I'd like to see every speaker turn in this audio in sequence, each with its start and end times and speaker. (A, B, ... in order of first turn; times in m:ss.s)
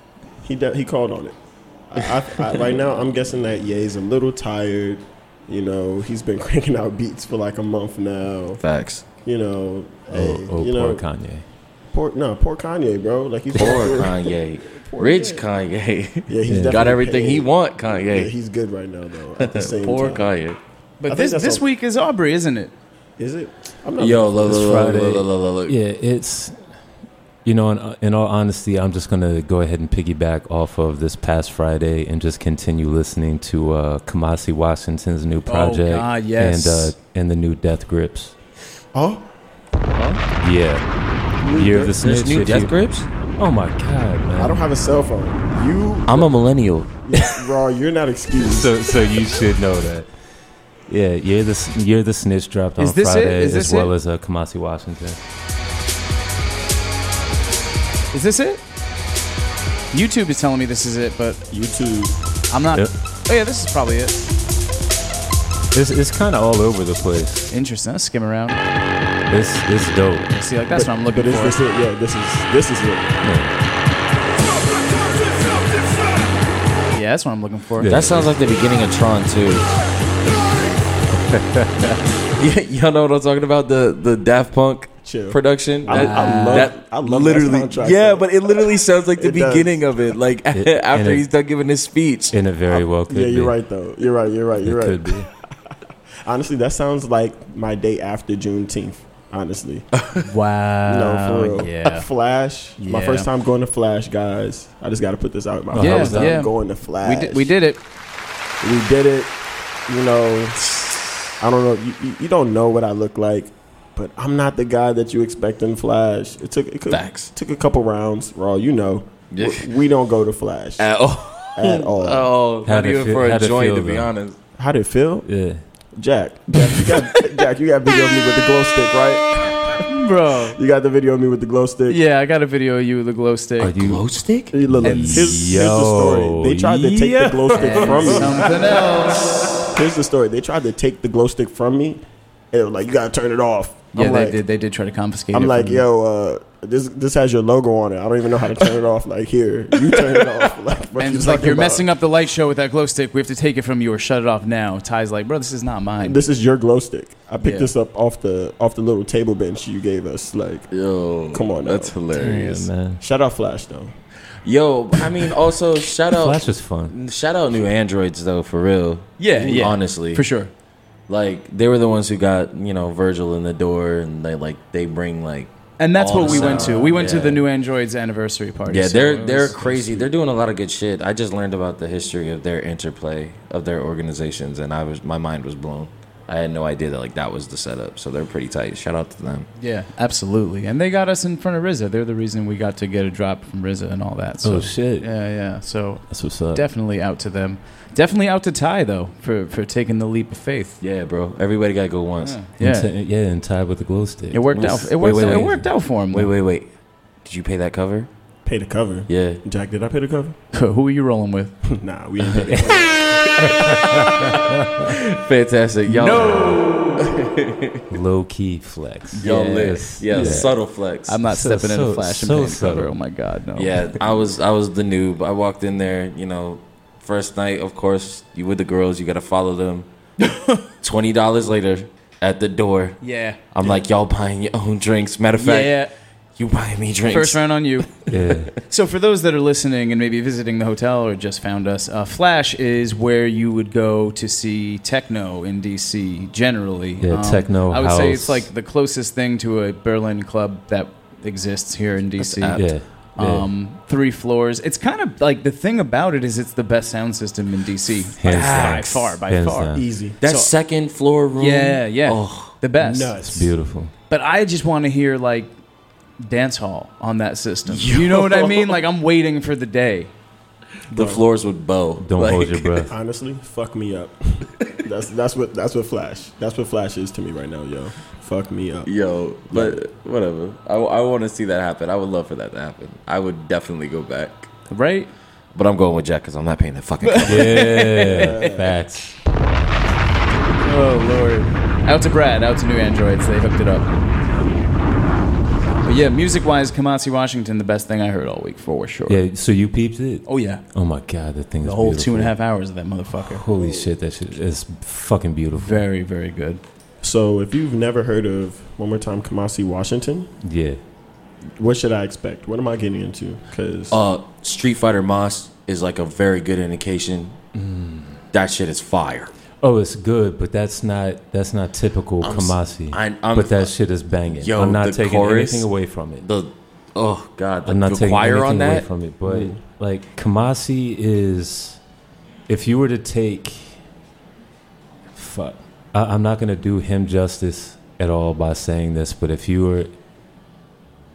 0:00.4-0:01.4 A
0:01.9-0:08.6 A
0:08.6-0:09.0 B
0:09.2-0:11.0 A
0:10.1-0:11.4 C
0:11.9-0:15.4 A
0:13.5-0:18.3 B
0:16.3-0:20.3 A
0:16.5-0:16.8 C
0:19.4-0:20.6 B
0:21.0-0:22.7 D
0:21.1-0:21.6 A
0:23.2-0:24.7 A
0:24.0-0:25.8 B
0:24.5-0:26.6 C
0:27.4-0:38.3 C
0:35.4-0:36.9 D
0:38.9-0:39.3 A
0:40.0-0:40.2 B
0:40.4-0:40.8 C
0:41.4-0:41.9 A
0:41.5-0:42.8 C
0:41.8-0:43.1 B
0:43.4-0:44.6 C
0:44.4-0:46.3 A
0:46.1-0:46.9 B
0:47.0-0:49.0 A
0:48.4-0:50.1 C
0:50.9-0:55.2 C
0:52.8-0:53.9 D
0:58.1-0:58.6 D
0:59.9-1:01.4 D
1:01.5-1:02.1 A
1:02.5-1:04.2 D
1:05.7-1:07.5 C
1:07.5-1:08.6 D
1:09.3-1:10.3 C
1:10.3-1:11.6 D
1:10.7-1:13.2 A
1:13.2-1:13.5 C
1:16.9-1:17.9 D
1:17.8-1:18.3 C
1:17.8-1:19.7 B
1:21.1-1:22.0 C
1:22.4-1:32.3 B
1:25.0-1:29.9 A
1:25.9-1:26.7 D
1:30.5-1:31.2 C
1:32.3-1:33.5 C
1:32.7-1:35.4 A
1:34.6-1:35.3 C
1:36.2-1:39.9 A
1:40.0-1:40.2 B
1:40.2-1:42.1 D
1:40.9-1:47.5 A
1:42.8-1:43.3 D
1:45.7-1:46.4 C
1:45.7-1:47.8 D
1:48.6-1:49.3 A
1:49.9-1:50.6 A
1:51.4-2:00.9 A
1:56.9-1:57.3 B
1:59.3-1:59.7 B
2:00.8-2:04.4 B
2:01.6-2:02.3 A
2:02.6-2:04.1 C
2:04.6-2:05.3 A
2:05.2-2:05.6 C
2:06.0-2:09.8 A
2:09.8-2:10.6 D
2:10.5-2:12.0 A
2:11.9-2:13.7 D
2:13.6-2:18.3 C
2:13.8-2:14.5 B
2:14.5-2:18.5 A
2:14.8-2:15.4 D
2:17.5-2:19.3 D
2:19.7-2:24.4 A
2:23.9-2:25.8 D
2:25.3-2:31.9 A
2:31.0-2:36.2 D
2:36.0-2:40.7 A
2:37.4-2:37.7 D
2:40.7-2:42.7 B
2:41.3-2:42.0 A
2:42.1-2:43.0 C
2:43.0-2:43.9 A
2:44.4-2:50.2 B
2:46.1-2:46.9 C
2:49.2-2:50.5 D
2:51.1-2:57.4 B
2:55.8-3:00.1 D
2:58.7-3:09.5 B
3:09.6-3:20.8 D
3:14.4-3:15.1 C
3:16.1-3:16.6 C
3:20.8-3:22.4 B
3:22.2-3:22.9 D
3:22.6-3:25.7 C
3:24.3-3:26.3 D
3:24.5-3:25.5 B
3:26.1-3:26.7 B
3:27.2-3:28.1 B
3:28.4-3:30.4 A
3:29.1-3:29.4 B
3:30.5-3:31.6 D
3:31.6-3:33.3 A
3:32.2-3:32.9 C
3:33.2-3:34.1 B
3:33.4-3:34.8 C
3:34.8-3:37.8 B
3:35.9-3:37.0 D
3:37.9-3:40.5 C
3:39.1-3:40.5 D
3:39.2-3:41.2 B
3:41.1-3:43.8 D
3:41.2-3:42.9 C
3:43.6-3:49.9 B
3:50.2-3:50.6 D
3:50.8-3:53.0 B
3:53.0-3:53.7 D
3:53.5-3:55.8 B
3:55.4-3:55.9 D
3:56.4-3:58.5 B
3:57.1-3:57.9 D
3:58.1-3:58.5 C
3:58.6-4:19.8 D
4:07.0-4:08.5 C
4:12.2-4:12.7 B
4:12.5-4:13.5 C
4:18.2-4:19.8 C
4:18.2-4:19.1 B
4:19.7-4:20.3 A
4:20.2-4:22.5 B
4:21.3-4:23.1 D
4:22.8-4:23.5 A
4:23.3-4:23.9 C
4:24.1-4:25.5 D
4:26.2-4:30.1 D
4:27.7-4:28.8 B
4:30.9-4:32.9 B
4:30.9-4:31.2 A
4:32.0-4:32.9 C
4:32.9-4:38.9 A
4:38.8-4:44.5 B
4:39.5-4:39.8 A
4:44.7-4:45.1 D
4:45.5-4:47.7 B
4:47.0-4:48.4 D
4:47.3-4:49.0 C
4:48.1-4:48.8 A
4:50.6-4:53.9 D
4:55.8-4:59.2 D
4:59.1-5:02.3 C
5:00.2-5:00.6 D
5:01.6-5:03.4 D
5:03.3-5:05.8 C
5:03.5-5:03.9 A
5:05.5-5:06.6 D
5:07.0-5:10.3 A
5:10.4-5:10.8 C
5:11.6-5:14.0 A
5:13.9-5:17.4 B
5:17.5-5:18.2 C
5:18.3-5:19.3 B
5:19.6-5:26.2 C
5:22.2-5:23.7 B
5:24.3-5:25.7 B
5:26.2-5:28.9 B
5:27.6-5:31.8 C
5:29.2-5:29.6 A
5:32.5-5:33.8 C
5:35.1-5:39.9 C